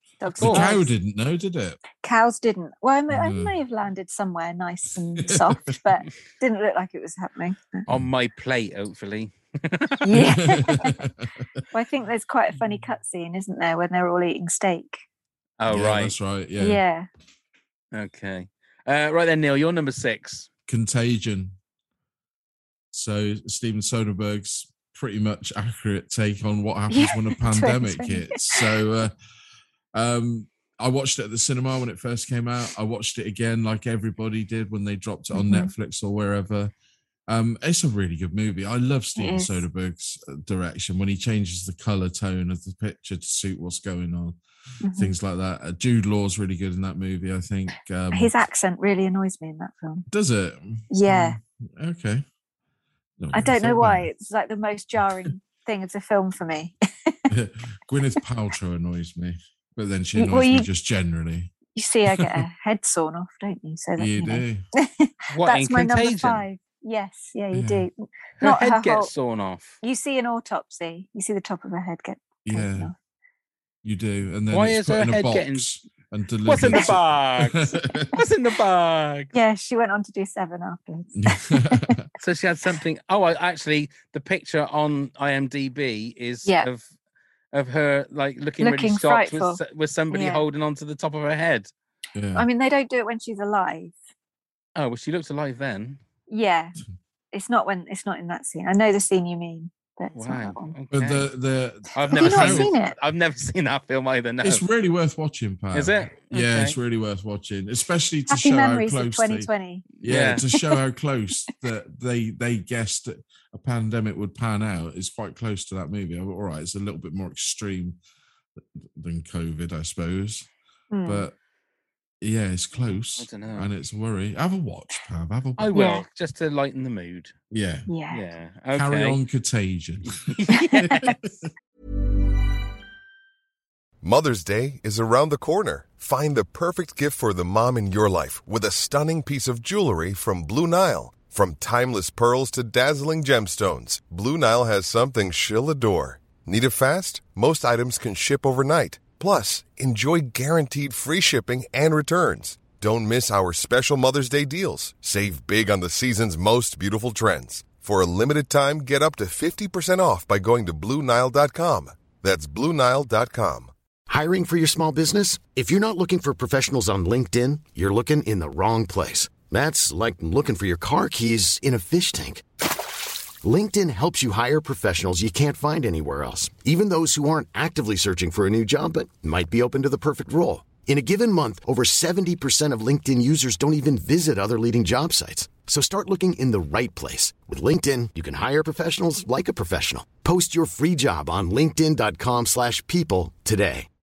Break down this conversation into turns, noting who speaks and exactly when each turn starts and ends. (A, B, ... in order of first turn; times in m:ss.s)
0:00.2-0:00.9 A
0:00.4-0:01.8 B
0:00.4-0:00.7 C
0:02.0-0:07.9 A
0:03.1-0:03.6 B
0:05.2-0:05.6 B
0:07.9-0:10.0 C
0:10.0-0:10.9 A
0:10.1-0:11.4 B
0:11.7-0:15.0 A
0:15.6-0:16.2 C
0:15.7-0:16.8 B
0:16.6-0:17.1 A
0:17.9-0:20.5 C
0:20.7-0:21.6 B
0:22.9-0:29.1 B
0:26.9-0:28.7 A
0:30.0-0:36.7 B
0:35.3-0:35.7 A
0:37.3-0:44.4 B
0:39.2-0:39.6 A
0:44.8-0:45.1 A
0:44.9-0:48.3 B
0:48.1-0:50.1 A
0:50.1-0:52.2 B
0:50.9-0:51.4 A
0:53.2-0:54.1 B
0:53.3-0:57.3 A
0:57.3-1:01.5 B
1:00.2-1:00.7 A
1:01.8-1:09.1 A
1:04.0-1:04.6 B
1:05.3-1:06.4 C
1:07.5-1:07.9 B
1:08.4-1:09.8 C
1:09.8-1:12.9 A
1:12.4-1:12.9 B
1:13.8-1:18.1 B
1:14.5-1:15.7 C
1:16.5-1:19.3 C
1:19.3-1:22.0 A
1:21.2-1:22.0 B
1:22.2-1:26.9 C
1:27.5-1:31.7 C
1:28.6-1:30.4 A
1:32.2-1:32.5 B
1:32.4-1:34.0 A
1:34.8-1:36.0 C
1:36.3-1:36.8 A
1:37.3-1:40.7 A
1:40.2-1:41.3 C
1:40.9-1:42.7 B
1:42.0-1:44.6 C
1:42.1-1:42.9 A
1:44.4-1:49.5 B
1:45.7-1:46.8 C
1:48.3-1:49.8 A
1:50.0-1:58.0 B
1:50.0-1:50.4 C
1:50.4-1:50.8 A
1:58.8-2:00.5 B
2:00.9-2:01.3 A
2:01.0-2:01.3 B
2:02.2-2:05.7 B
2:02.8-2:03.7 C
2:05.6-2:07.3 C
2:05.7-2:06.1 A
2:07.5-2:07.9 B
2:07.9-2:08.2 A
2:08.1-2:09.2 C
2:08.7-2:10.2 B
2:10.0-2:10.9 C
2:10.5-2:11.2 A
2:10.8-2:11.5 B
2:14.0-2:43.7 D
2:44.1-2:52.4 E
2:53.4-3:13.9 E